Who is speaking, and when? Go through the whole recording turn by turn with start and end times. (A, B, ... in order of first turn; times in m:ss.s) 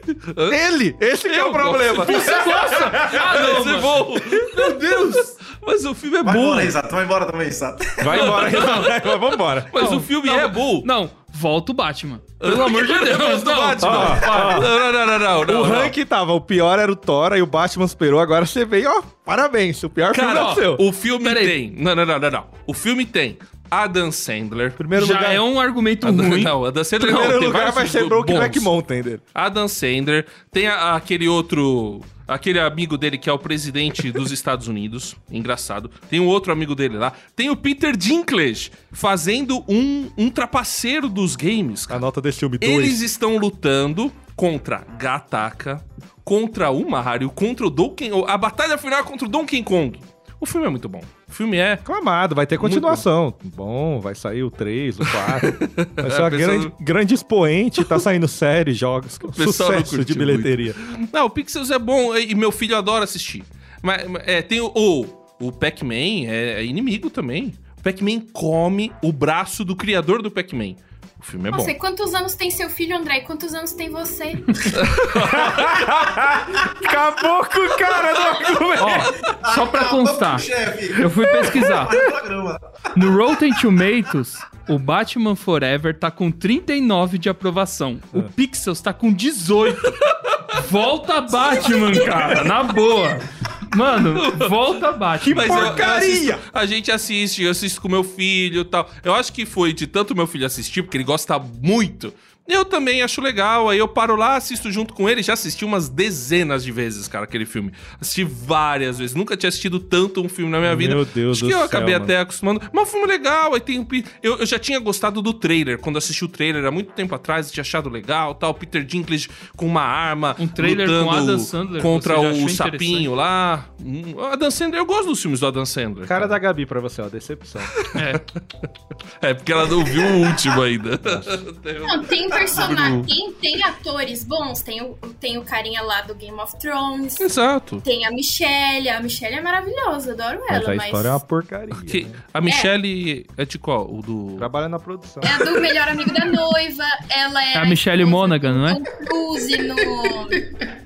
0:00.1-0:00.6 A
0:00.5-0:03.4 B
0:01.2-0:06.7 A
0:02.0-0:05.4 C
0:06.2-0:08.3 D
0:08.0-0:09.7 B
0:08.1-0:10.9 A
0:09.7-0:14.6 C
0:12.4-0:15.9 A
0:13.8-0:14.7 B
0:15.4-0:20.8 B
0:20.1-0:24.8 A
0:20.2-0:20.6 C
0:21.2-0:21.6 C
0:24.8-0:25.4 B
0:24.9-0:26.6 C
0:26.0-0:28.7 A
0:27.0-0:29.2 B
0:29.3-0:42.0 A
0:41.9-0:43.0 B
0:42.6-0:51.8 A
0:51.8-1:00.8 B
0:52.6-0:53.0 A
0:55.0-0:56.7 A
0:57.8-0:58.0 A
0:59.3-1:11.7 A
1:11.5-1:14.8 E
1:14.7-1:15.9 A
1:15.1-1:19.1 B
1:18.8-1:22.0 C
1:19.2-1:22.6 D
1:22.9-1:30.0 C
1:29.8-1:30.4 A
1:30.5-1:35.9 C
1:34.1-1:34.5 A
1:35.2-1:36.4 B
1:35.3-2:06.4 A
1:50.6-1:52.1 B
2:00.4-2:03.1 C
2:06.0-2:07.8 B
2:07.8-2:08.4 A
2:07.9-2:08.2 C
2:09.2-2:13.1 A
2:11.0-2:11.3 B
2:11.8-2:21.2 E
2:17.2-2:17.8 A
2:20.5-2:22.2 B
2:21.9-2:24.5 A
2:24.4-2:25.4 B
2:25.2-2:30.5 E
2:27.5-2:28.8 C